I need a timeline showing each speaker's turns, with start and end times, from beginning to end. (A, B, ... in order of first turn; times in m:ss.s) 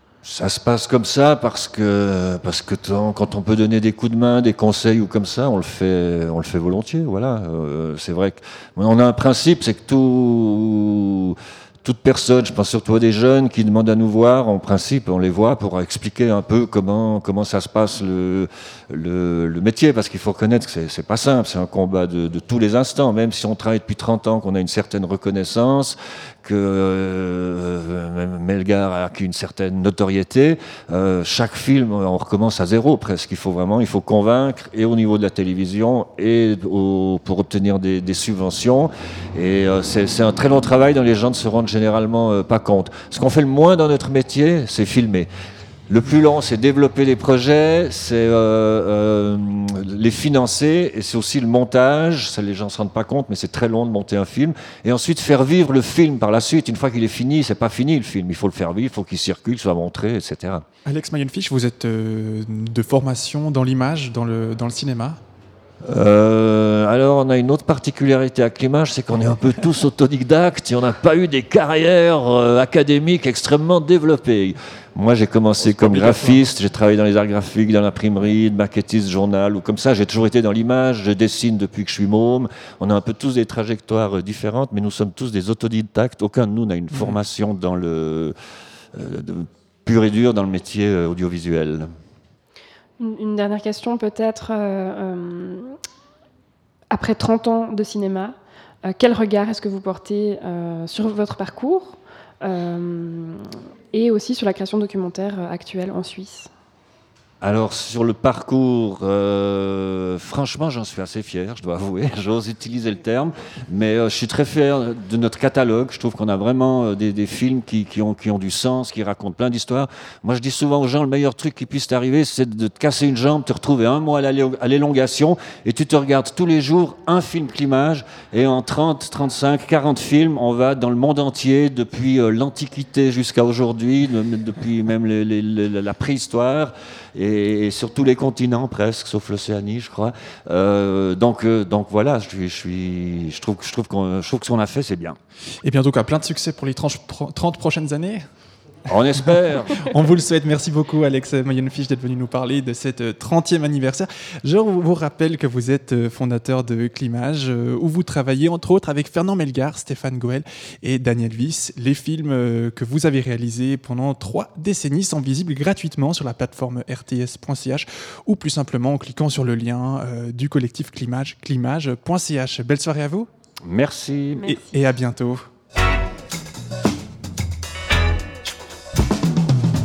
0:00.2-0:45.3 A
0:45.9-1:00.6 A
1:00.8-1:05.2 B
1:05.8-1:28.3 A
1:15.6-1:16.4 B
1:28.9-1:31.9 A
1:33.0-1:35.7 C
1:36.9-1:46.5 C
1:47.4-2:25.2 A
2:25.6-2:28.2 B
2:28.9-2:29.8 A
2:29.2-2:53.3 B
2:53.6-2:54.5 A
2:54.4-2:55.4 B